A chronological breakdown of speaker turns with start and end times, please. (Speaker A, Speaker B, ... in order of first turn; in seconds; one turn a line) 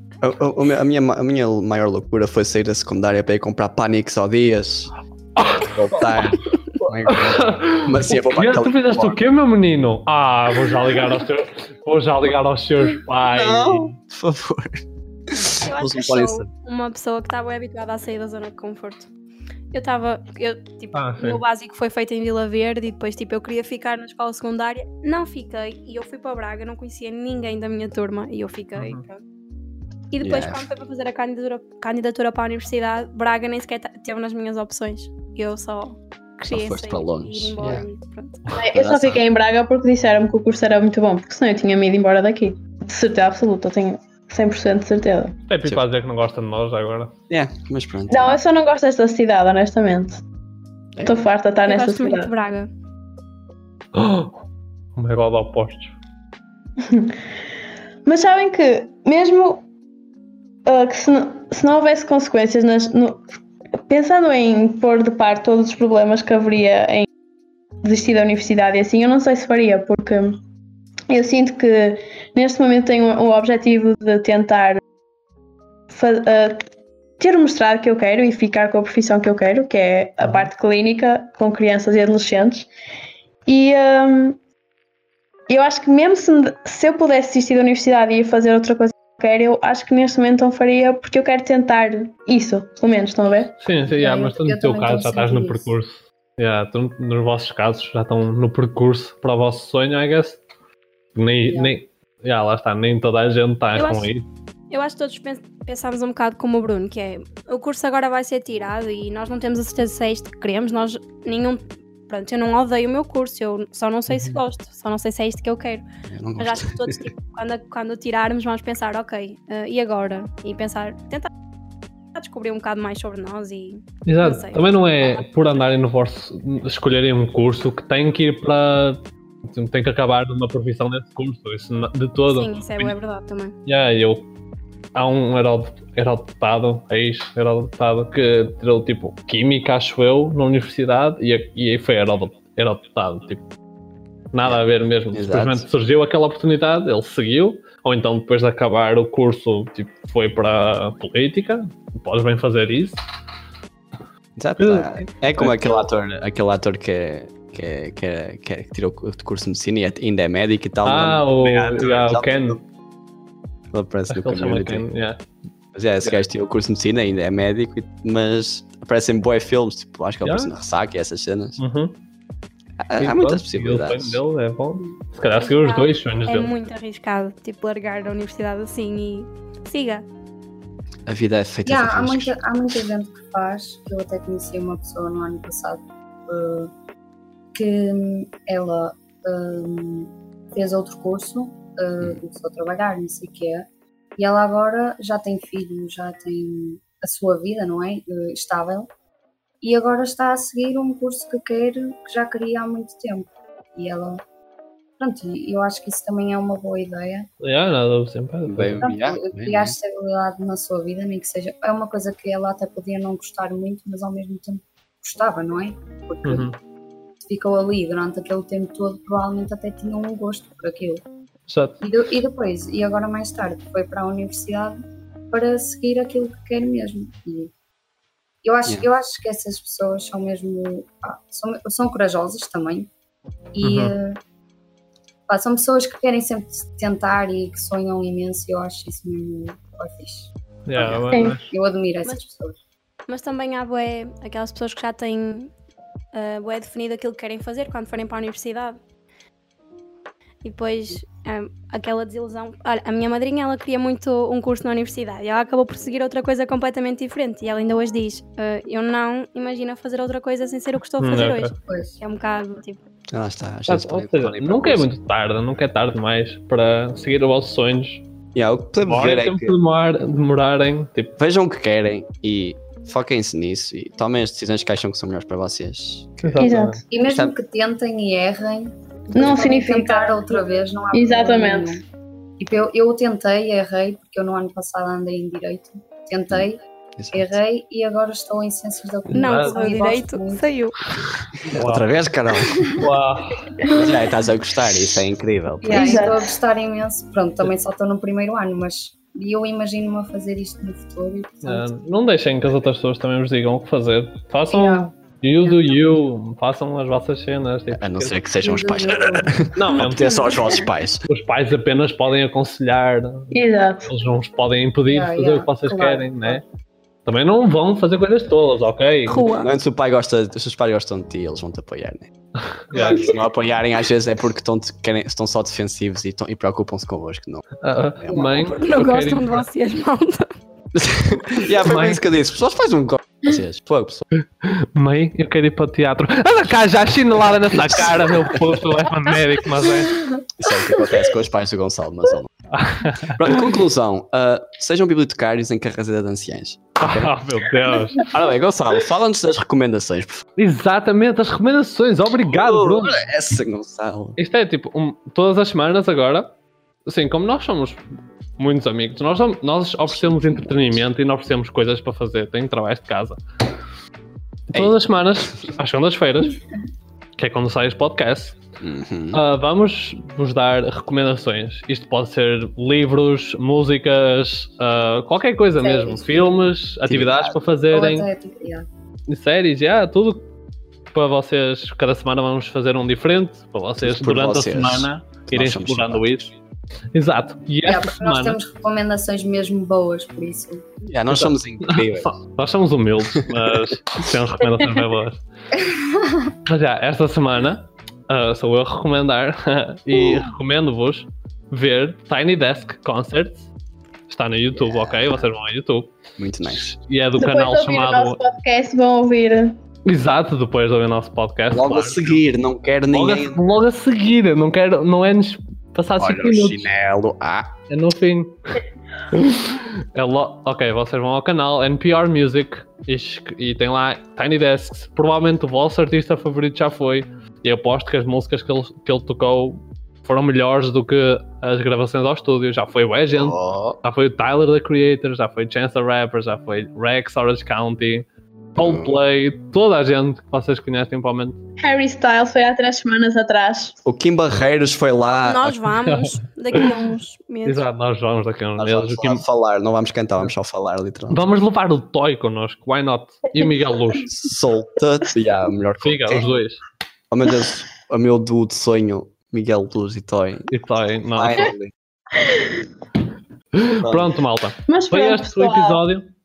Speaker A: 0.2-4.9
Speaker B: 5.3-13.9
Speaker A: 5.6-9.2
Speaker A: 13.2-14.8
Speaker A: 15.3-16.5
Speaker C: 15.5-19.1
Speaker C: 19.7-29.2
Speaker B: 20.9-21.4
Speaker B: 28.8-29.0
Speaker C: 30.1-38.5
Speaker A: 30.2-30.7
Speaker A: 36.5-37.8
Speaker D: 38.5-45.4
Speaker A: 38.7-39.2
Speaker B: 45.5-47.1
Speaker A: 47.3-48.4
Speaker D: 48.1-50.2
Speaker A: 51.0-51.2
Speaker D: 51.0-52.3
Speaker C: 51.6-52.7
Speaker B: 53.9-54.3
Speaker B: 55.0-55.9
Speaker D: 56.8-57.1
Speaker D: 58.0-59.6
Speaker D: 60.6-63.2
Speaker D: 63.9-67.1
Speaker D: 67.8-70.4
Speaker D: 71.1-74.8
Speaker D: 75.9-76.6
Speaker D: 77.2-82.7
Speaker B: 80.2-80.5
Speaker D: 83.5-84.4
Speaker D: 85.5-93.5
Speaker B: 93.6-100.4
Speaker E: 93.8-95.7
Speaker B: 101.1-104.3
Speaker E: 101.4-101.8
Speaker C: 103.7-104.1
Speaker C: 104.7-115.8
Speaker B: 114.1-114.4
Speaker A: 116.1-117.0
Speaker C: 116.4-121.3
Speaker C: 122.1-125.2
Speaker B: 124.0-132.9
Speaker C: 132.3-133.5
Speaker B: 133.7-134.3
Speaker B: 134.9-143.4
Speaker B: 144.3-153.0
Speaker A: 145.1-145.7
Speaker A: 154.4-162.6
Speaker B: 154.6-155.7
Speaker B: 160.8-162.6
Speaker A: 163.7-164.8
Speaker B: 164.1-165.2
Speaker A: 165.7-171.6
Speaker B: 170.2-170.5
Speaker B: 171.6-172.0
Speaker A: 172.8-174.2
Speaker B: 173.0-176.5
Speaker C: 175.4-180.1
Speaker A: 181.1-182.4
Speaker E: 181.7-186.7
Speaker E: 187.5-198.9
Speaker E: 199.6-204.2
Speaker E: 205.0-207.3
Speaker B: 207.4-208.9
Speaker A: 208.4-209.8
Speaker E: 208.8-216.5
Speaker B: 216.2-216.5
Speaker E: 217.3-221.1
Speaker B: 221.5-221.8
Speaker E: 221.8-227.5
Speaker E: 228.4-232.9
Speaker E: 233.5-234.2
Speaker B: 233.6-233.9
Speaker E: 235.3-242.6
Speaker B: 240.7-241.5
Speaker A: 240.8-241.1
Speaker D: 241.1-241.4
Speaker C: 243.1-245.5
Speaker C: 246.1-248.8
Speaker C: 250.4-262.9
Speaker B: 261.0-261.5
Speaker E: 261.6-262.0
Speaker A: 263.1-264.9
Speaker B: 263.7-268.0
Speaker A: 268.3-269.6
Speaker B: 268.8-271.2
Speaker A: 271.2-277.3
Speaker B: 276.2-276.8
Speaker D: 276.4-276.8
Speaker E: 276.9-281.8
Speaker D: 279.1-281.8
Speaker A: 279.2-279.4
Speaker E: 282.4-286.6
Speaker A: 287.0-287.4
Speaker E: 287.1-290.5
Speaker C: 289.1-290.8
Speaker B: 289.1-289.6
Speaker B: 291.4-291.9
Speaker A: 291.4-292.7
Speaker B: 292.7-293.5
Speaker A: 293.7-296.1
Speaker E: 295.6-301.7
Speaker D: 295.6-296.2
Speaker B: 301.4-308.1
Speaker D: 304.5-304.9
Speaker E: 305.4-305.7
Speaker A: 307.7-311.1
Speaker E: 308.4-309.5
Speaker B: 309.6-310.5
Speaker C: 310.0-310.7
Speaker B: 311.1-316.4
Speaker D: 313.3-313.9
Speaker E: 314.9-316.4
Speaker B: 317.1-319.2
Speaker C: 319.1-319.5
Speaker A: 319.3-322.1
Speaker B: 322.5-323.1
Speaker A: 322.7-327.5
Speaker B: 327.6-329.5
Speaker E: 328.1-328.5
Speaker C: 328.2-330.3
Speaker A: 330.7-334.1
Speaker B: 331.5-332.0
Speaker B: 334.4-340.1
Speaker A: 337.5-338.5
Speaker A: 340.4-342.3
Speaker B: 342.5-343.5
Speaker A: 343.0-347.2
Speaker B: 346.8-348.1
Speaker A: 348.0-350.3
Speaker B: 350.4-353.1
Speaker A: 352.2-354.2
Speaker B: 354.2-356.3
Speaker B: 356.9-357.8
Speaker B: 358.4-363.2
Speaker B: 364.5-366.4
Speaker A: 364.5-365.5
Speaker B: 367.2-368.4
Speaker A: 368.6-369.2
Speaker B: 369.1-378.1
Speaker E: 375.6-376.2
Speaker A: 376.9-377.4
Speaker E: 377.7-378.7
Speaker B: 379.1-380.2
Speaker B: 380.9-386.3
Speaker A: 383.8-386.3
Speaker B: 386.9-388.4
Speaker E: 387.6-390.6
Speaker A: 390.8-392.1
Speaker B: 391.1-395.2
Speaker A: 393.1-393.5
Speaker E: 395.6-396.3
Speaker B: 396.4-403.5
Speaker A: 399.9-400.2
Speaker B: 404.1-408.2
Speaker A: 404.5-405.3
Speaker A: 406.2-406.8
Speaker D: 407.2-409.6
Speaker B: 409.9-412.1
Speaker A: 411.5-413.4
Speaker B: 412.9-416.7
Speaker A: 416.0-417.5
Speaker B: 417.7-438.0
Speaker A: 433.1-433.8
Speaker B: 438.6-441.4
Speaker A: 438.6-439.0
Speaker D: 441.6-443.8
Speaker A: 443.8-445.6
Speaker C: 445.2-447.6
Speaker B: 445.8-446.7
Speaker B: 447.4-449.2
Speaker A: 448.6-451.2
Speaker B: 451.1-454.1
Speaker A: 454.1-456.3
Speaker B: 455.8-456.6
Speaker A: 457.1-460.5
Speaker B: 460.5-461.5
Speaker A: 461.1-461.7
Speaker B: 463.5-466.1
Speaker A: 463.8-464.1
Speaker D: 464.7-465.8